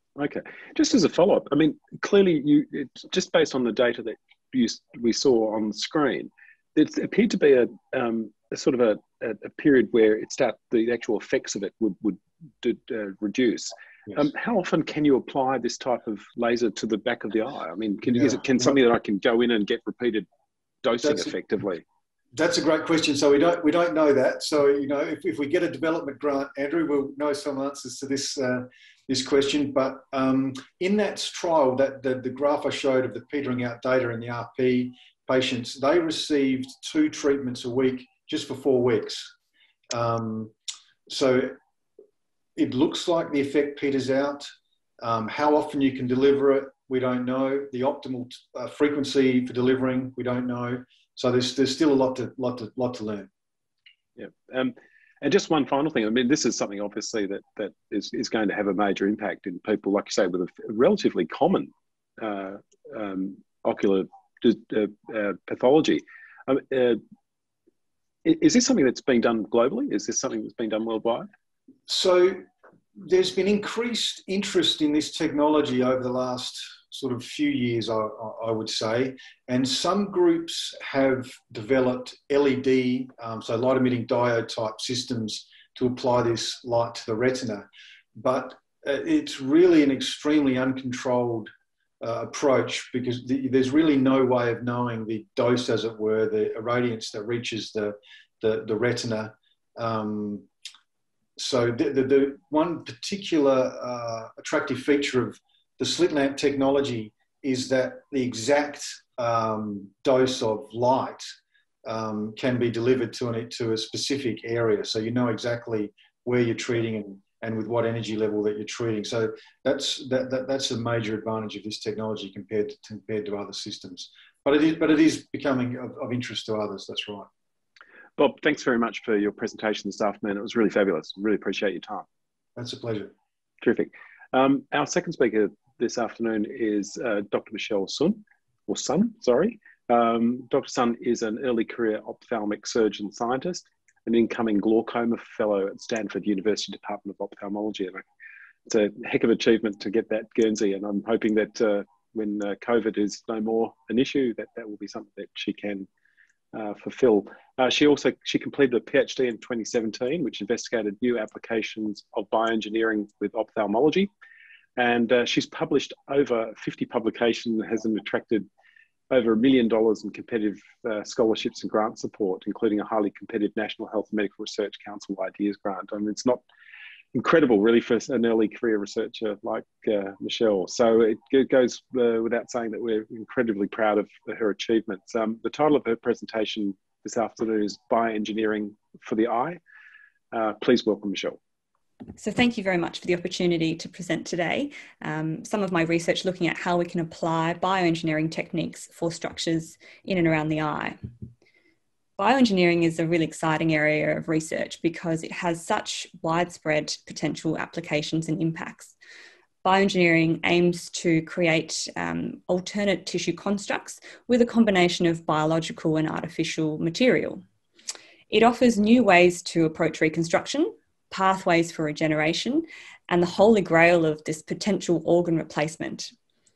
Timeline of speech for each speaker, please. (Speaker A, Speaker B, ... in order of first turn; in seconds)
Speaker A: 0.2-20.2, 20.8-21.8, 54.2-67.0, 68.2-71.3, 128.2-132.1, 133.6-148.1, 148.7-155.9, 156.5-164.1, 164.8-168.5, 169.1-176.4, 177.1-189.6, 190.3-191.4
Speaker B: 18.1-18.4, 21.0-21.3, 22.3-39.3, 39.9-40.5, 41.1-41.6, 42.6-44.5, 45.0-53.3, 71.9-72.4, 73.0-91.5, 92.0-100.5, 101.4-111.2, 111.8-127.3, 132.6-133.1
Speaker C: 192.2-201.0, 202.2-208.9, 209.6-217.4, 218.3-226.1